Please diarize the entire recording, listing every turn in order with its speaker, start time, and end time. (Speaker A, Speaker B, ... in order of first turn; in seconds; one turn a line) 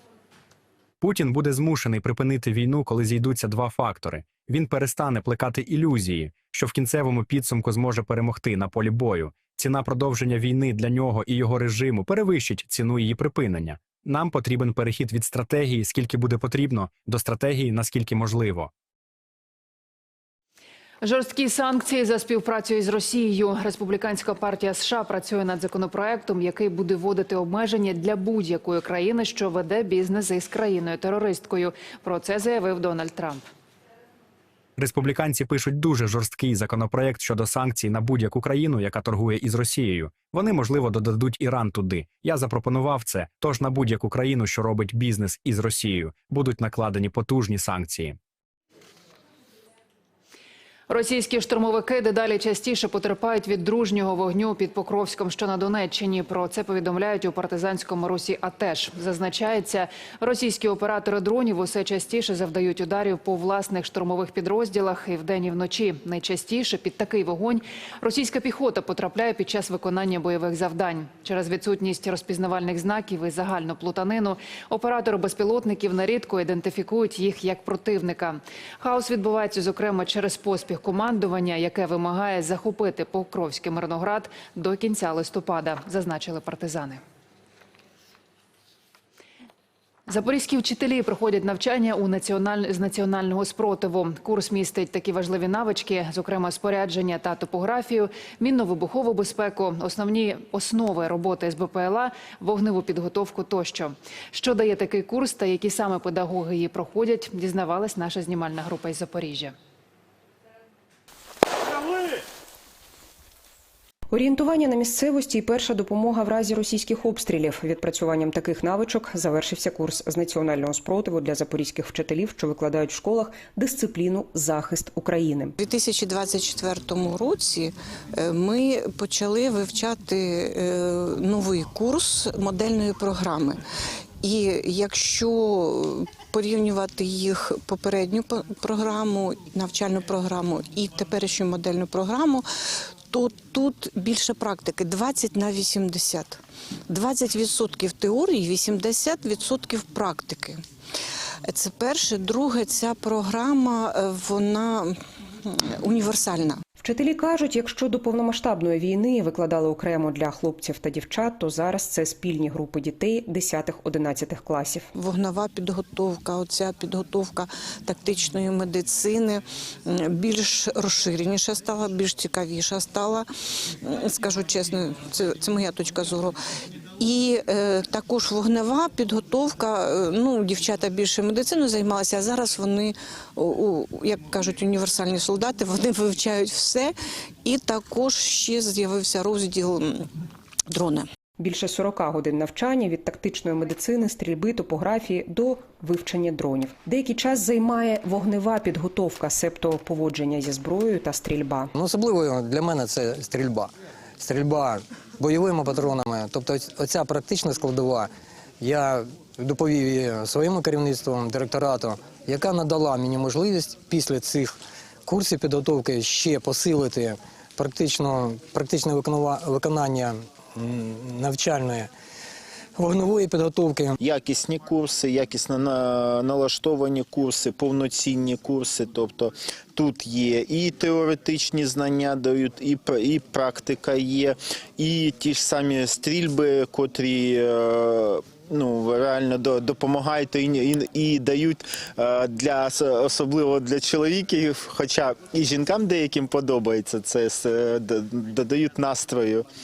Speaker A: 1.0-18.7
Speaker B: 21.0-33.4
Speaker A: 34.8-48.1
Speaker B: 50.9-87.0
Speaker B: 90.1-109.5
Speaker C: 114.1-125.5
Speaker D: 125.6-133.6
Speaker D: 134.2-142.5
Speaker D: 143.1-150.6
Speaker D: 151.5-156.6
Speaker C: 156.8-164.9
Speaker D: 164.9-173.3
Speaker D: 173.8-176.4
Speaker D: 177.0-190.1
Speaker D: 190.7-191.1
Speaker C: 191.4-201.7
Speaker E: 201.7-208.1
Speaker E: 208.6-214.5
Speaker E: 215.1-221.9
Speaker E: 222.8-223.9
Speaker F: 224.0-249.4